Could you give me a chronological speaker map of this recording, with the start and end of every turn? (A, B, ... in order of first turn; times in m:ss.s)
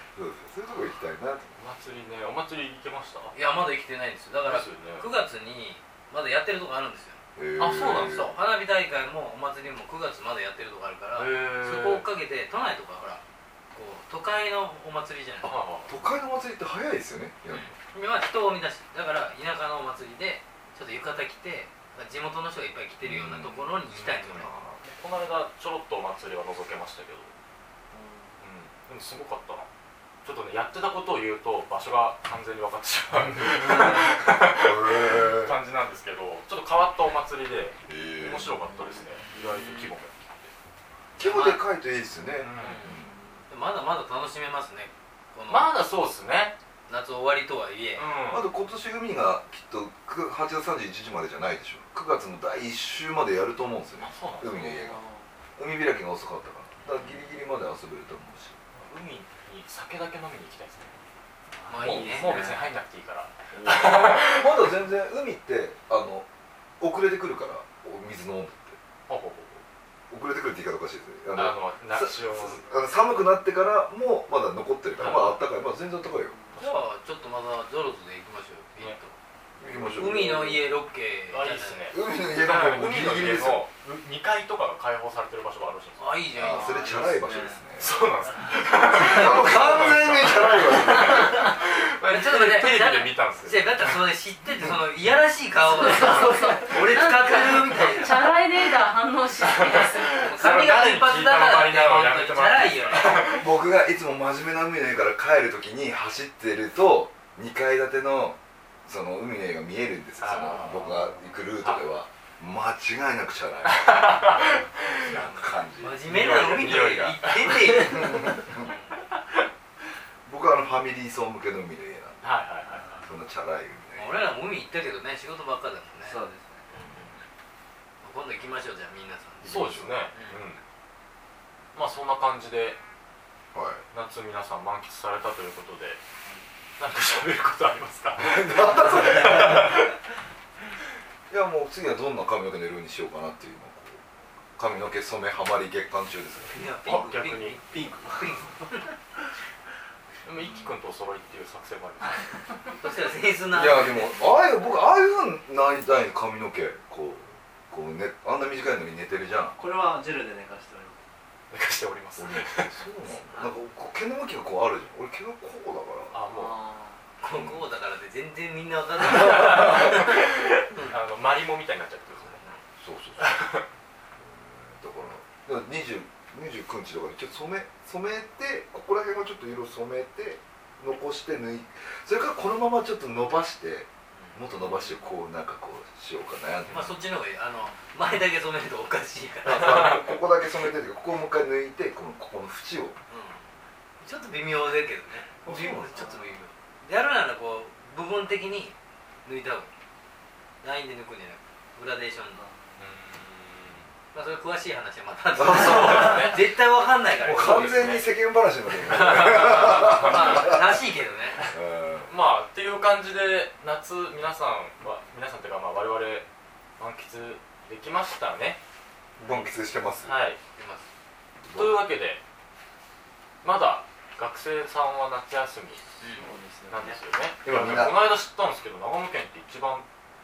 0:00.1-0:01.6 A
0:01.6-0:03.3 B
0:03.3-0:07.2 C
0:04.4-0:05.1 B
0:07.4-0:08.4 A
0:07.6-0:08.3 B
0:08.0-0:13.2 C
0:11.2-0:12.0 B
0:13.7-0:15.5 C
0:15.4-0:15.9 B
0:15.9-0:17.7 A
0:17.5-0:24.5 C
0:23.0-0:23.8 A
0:23.9-0:27.3 B
0:24.3-0:24.8 A
0:27.9-0:28.3 D
0:28.4-0:29.7 B
0:30.2-0:40.5 B
0:33.6-0:34.0 D
0:34.5-0:35.5 A
0:37.9-0:38.5 A
0:39.3-0:39.7 D
0:41.2-0:43.1 A
0:41.2-0:41.6 C
0:42.4-0:42.9 B
0:42.6-0:43.0 C
0:42.8-0:43.4 D
0:43.5-0:45.7 C
0:45.5-0:46.5 B
0:46.9-0:48.1 C
0:48.0-0:48.5 B
0:48.3-0:55.0 A
0:54.0-0:54.8 B
0:54.6-0:55.2 D
0:55.6-0:58.6 A
0:58.7-1:01.0 B
1:01.5-1:02.7 D
1:01.7-1:02.4 C
1:01.8-1:04.7 B
1:03.5-1:03.9 D
1:03.6-1:06.2 A
1:06.8-1:08.8 A
1:09.1-1:09.6 B
1:10.1-1:16.4 A
1:11.3-1:12.6 B
1:15.0-1:15.4 B
1:16.5-1:16.8 B
1:16.6-1:19.2 C
1:19.6-1:20.6 A
1:19.7-1:20.4 D
1:19.9-1:21.9 C
1:21.3-1:26.2 B
1:21.9-1:23.6 A
1:26.0-1:27.3 C
1:26.3-1:27.9 A
1:26.5-1:27.6 D
1:27.8-1:34.0 B
1:28.7-1:31.5 A
1:31.1-1:31.4 C
1:32.0-1:38.3 C
1:35.7-1:40.3 E
1:39.4-1:43.5 B
1:40.1-1:43.4 C
1:43.3-1:56.1 A
1:50.2-1:51.0 B
1:51.6-1:51.9 B
1:53.6-1:55.2 B
1:55.0-1:59.0 C
1:56.0-1:58.0 B
1:57.8-1:58.7 A
2:00.2-2:02.2 A
2:02.2-2:03.0 B
2:02.7-2:03.0 D
2:03.0-2:04.2 A
2:03.9-2:06.2 C
2:06.0-2:07.0 D
2:06.7-2:07.1 C
2:08.0-2:10.4 C
2:09.4-2:10.0 A
2:09.4-2:10.6 B
2:11.7-2:12.8 B
2:13.5-2:13.8 A
2:13.9-2:16.0 B
2:16.8-2:19.9 B
2:18.2-2:19.7 A
2:18.9-2:19.6 D
2:21.3-2:24.0 A
2:24.6-2:26.6 A
2:26.5-2:28.9 C
2:26.8-2:27.9 B
2:30.2-2:32.3 B
2:32.8-2:34.3 C
2:33.5-2:39.6 A
2:39.6-2:41.0 D
2:41.5-2:42.7 B
2:42.2-2:46.2 A
2:46.1-2:46.6 B
2:46.2-2:47.0 D
2:47.2-2:50.9 C
2:47.3-2:47.6 A
2:49.0-2:52.4 B
2:52.8-2:53.4 A
2:53.2-2:53.6 B
2:54.2-3:07.0 A
3:04.1-3:04.5 C
3:06.7-3:10.0 C
3:09.4-3:13.0 A
3:09.6-3:10.0 B
3:13.1-3:19.7 C
3:15.4-3:16.1 A
3:16.0-3:16.2 D
3:20.6-3:22.4 C
3:22.4-3:22.8 D
3:22.8-3:23.8 B
3:24.1-3:27.8 C
3:25.4-3:26.3 A
3:25.4-3:26.4 B
3:27.2-3:28.0 B
3:27.2-3:30.7 A
3:28.8-3:30.6 B
3:29.1-3:31.5 C
3:31.4-3:32.1 A
3:32.1-3:36.2 B
3:36.8-3:38.6 B
3:39.2-3:40.1 A
3:40.0-3:40.4 B
3:40.6-3:40.9 C
3:41.4-3:41.8 A
3:41.5-3:42.2 B
3:43.4-3:45.8 B
3:46.0-3:46.3 C
3:46.1-3:47.0 D
3:46.7-3:49.8 B
3:47.4-3:48.2 A